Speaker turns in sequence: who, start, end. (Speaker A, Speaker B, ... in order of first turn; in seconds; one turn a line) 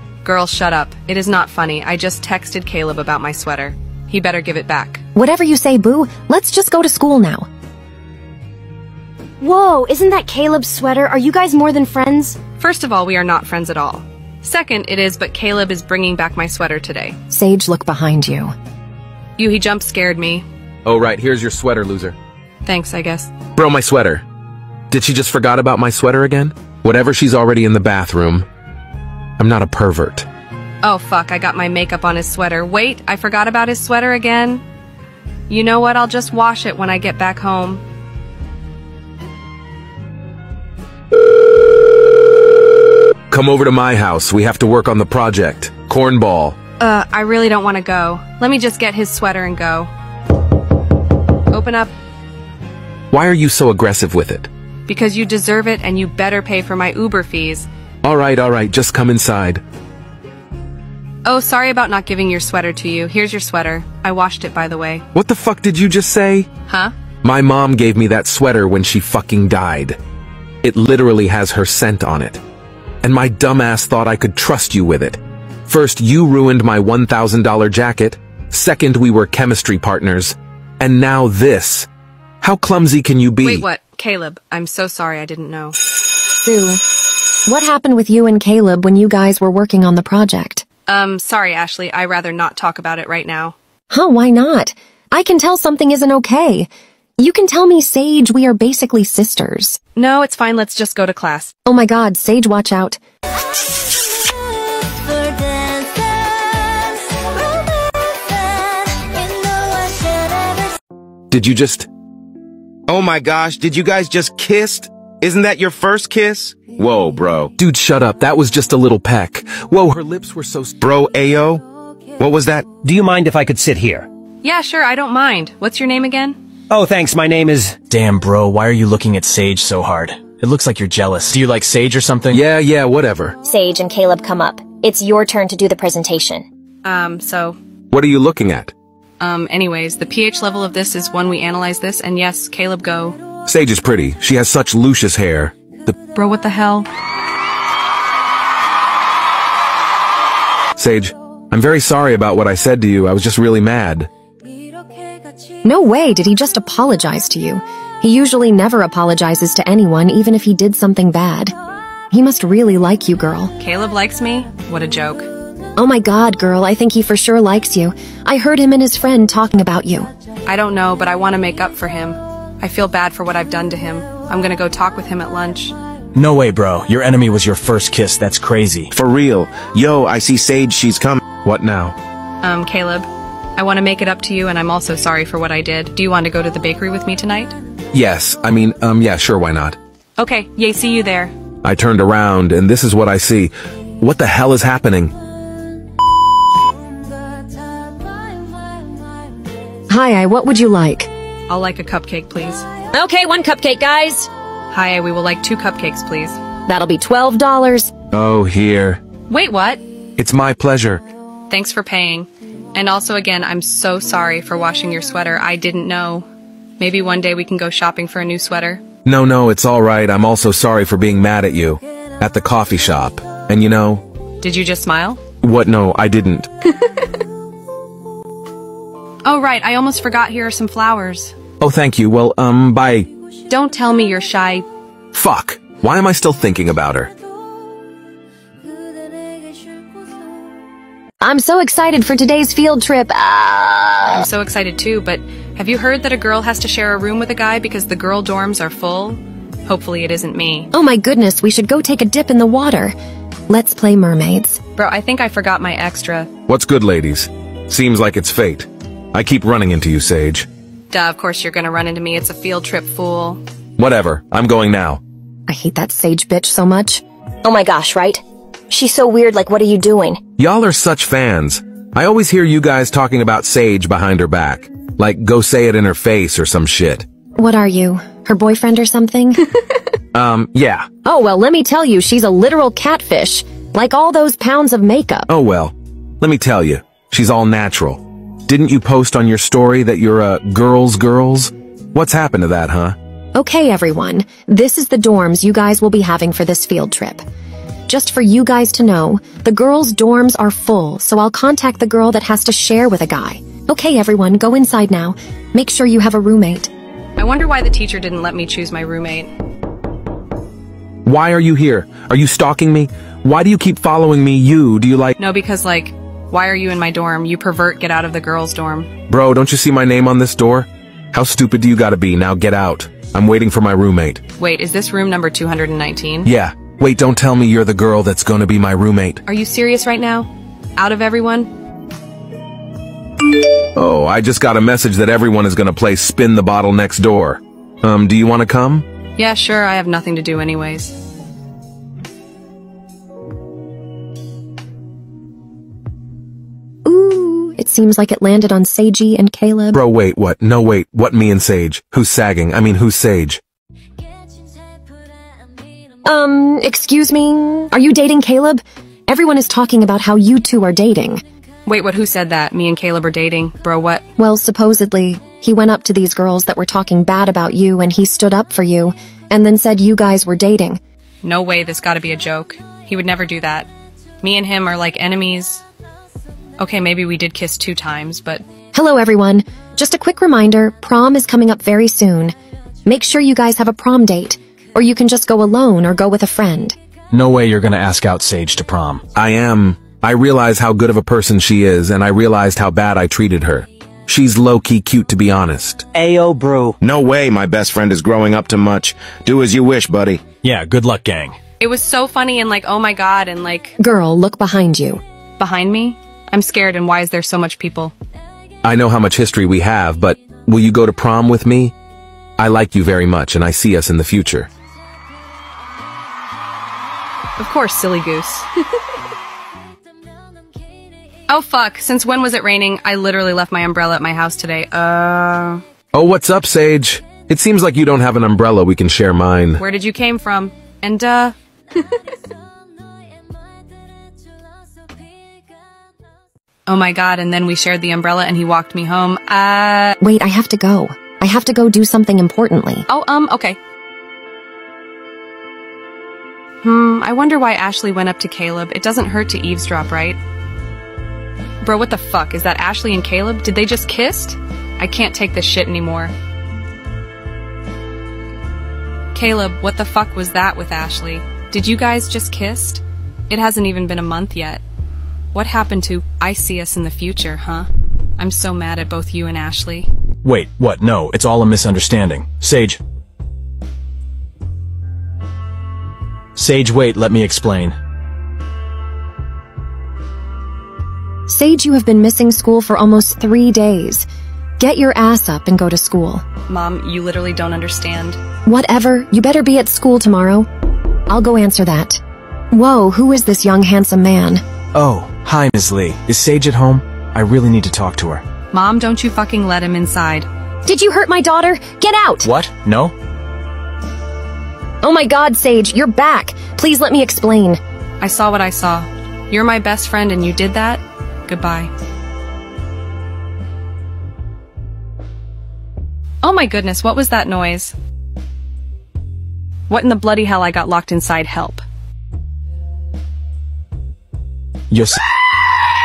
Speaker A: 0.2-5.0
Speaker B: 5.1-7.5
Speaker B: 9.4-12.3
Speaker C: 10.3-12.1
Speaker A: 12.6-17.2
Speaker B: 17.3-18.5
Speaker A: 19.4-20.4
Speaker D: 20.8-22.1
Speaker A: 22.6-23.3
Speaker D: 23.6-24.2
Speaker D: 24.9-28.4
Speaker D: 29.4-30.3
Speaker A: 30.8-34.6
Speaker A: 35.5-37.8
Speaker D: 43.3-46.6
Speaker A: 46.8-49.9
Speaker A: 51.5-51.9
Speaker D: 53.1-54.5
Speaker A: 54.9-57.7
Speaker D: 58.0-59.6
Speaker A: 61.2-65.0
Speaker D: 65.1-66.5
Speaker A: 66.7-66.9
Speaker D: 67.2-70.0
Speaker D: 70.6-72.4
Speaker D: 73.0-81.9
Speaker D: 82.4-83.6
Speaker A: 83.4-85.8
Speaker B: 86.4-86.8
Speaker B: 87.5-90.6
Speaker A: 90.9-93.5
Speaker B: 93.9-99.8
Speaker A: 100.0-101.5
Speaker B: 101.7-103.0
Speaker D: 111.3-111.9
Speaker E: 112.9-117.5
Speaker D: 117.6-120.8
Speaker E: 120.8-121.6
Speaker E: 122.2-122.7
Speaker F: 122.8-124.1
Speaker A: 124.4-126.4
Speaker F: 126.7-127.8
Speaker G: 127.9-132.4
Speaker D: 132.3-133.4
Speaker C: 133.4-136.4
Speaker B: 134.2-136.3
Speaker A: 136.8-137.6
Speaker D: 137.9-138.7
Speaker A: 139.2-143.2
Speaker D: 143.4-145.9
Speaker A: 146.1-146.9
Speaker D: 150.8-154.1
Speaker B: 155.6-161.5
Speaker B: 162.1-163.5
Speaker A: 163.6-165.3
Speaker B: 165.8-170.1
Speaker A: 170.5-175.7
Speaker G: 176.1-178.9
Speaker E: 178.9-181.2
Speaker D: 181.4-181.9
Speaker A: 182.4-187.5
Speaker D: 187.9-189.8
Speaker A: 190.2-191.3
Speaker D: 191.6-195.1
Speaker B: 199.9-201.1
Speaker A: 201.5-202.7
Speaker B: 202.9-204.3
Speaker A: 204.7-206.4
Speaker B: 206.7-207.9
Speaker D: 208.1-209.0
Speaker A: 209.3-209.8
Speaker D: 210.2-211.0
Speaker A: 211.5-216.3
Speaker A: 216.8-218.8
Speaker D: 219.1-224.0
Speaker A: 224.4-225.2
Speaker D: 225.4-226.5
Speaker A: 229.2-231.3
Speaker D: 231.6-233.1
Speaker A: 233.5-234.7
Speaker D: 235.1-237.1
Speaker B: 241.2-244.2
Speaker A: 244.1-250.7
Speaker B: 250.7-252.9
Speaker B: 253.5-254.6
Speaker A: 254.8-256.3
Speaker D: 256.5-260.5
Speaker A: 260.9-263.4
Speaker D: 263.8-265.0
Speaker B: 265.5-267.0
Speaker C: 267.4-268.2
Speaker B: 267.6-268.1
Speaker C: 268.7-270.2
Speaker B: 269.4-270.1
Speaker D: 270.4-277.1
Speaker B: 277.4-279.4
Speaker D: 280.1-280.9
Speaker B: 281.0-285.3
Speaker D: 285.3-292.9
Speaker B: 293.3-297.2
Speaker B: 297.9-306.7
Speaker A: 307.2-309.3
Speaker D: 311.0-315.1
Speaker A: 315.2-318.9
Speaker D: 319.1-324.2
Speaker A: 324.4-326.3
Speaker D: 326.2-329.2
Speaker A: 329.2-331.5
Speaker D: 333.8-338.9
Speaker A: 339.2-340.9
Speaker B: 346.8-349.8
Speaker D: 349.7-353.4
Speaker B: 356.0-361.2
Speaker A: 361.6-364.1
Speaker B: 364.2-370.8
Speaker A: 371.2-373.7
Speaker A: 374.2-375.6
Speaker A: 376.6-378.4
Speaker B: 378.7-382.3
Speaker B: 382.9-386.8
Speaker G: 387.1-389.0
Speaker D: 389.1-395.9
Speaker F: 395.9-396.7
Speaker E: 396.8-400.2
Speaker G: 400.4-401.4
Speaker A: 401.6-403.8
Speaker B: 403.8-405.0
Speaker A: 405.4-407.9
Speaker D: 408.6-411.7
Speaker D: 412.4-414.5
Speaker A: 417.4-418.5
Speaker A: 421.3-425.6
Speaker D: 425.9-429.6
Speaker A: 429.6-431.3
Speaker A: 436.7-439.9
Speaker B: 440.0-442.9
Speaker A: 442.9-443.6
Speaker A: 446.6-450.2
Speaker A: 451.6-456.1
Speaker A: 459.1-464.6
Speaker A: 465.3-469.9
Speaker G: 470.2-472.8
Speaker G: 476.4-477.7
Speaker B: 481.3-484.1
Speaker B: 484.6-486.2
Speaker A: 486.5-488.2
Speaker B: 488.4-490.5
Speaker B: 491.1-492.0
Speaker B: 492.5-494.4
Speaker G: 494.7-498.2
Speaker A: 498.5-500.3
Speaker B: 500.6-502.3
Speaker G: 502.2-502.9
Speaker B: 504.8-507.6
Speaker A: 508.0-511.7
Speaker A: 516.2-517.7
Speaker A: 519.7-521.6
Speaker G: 524.7-525.0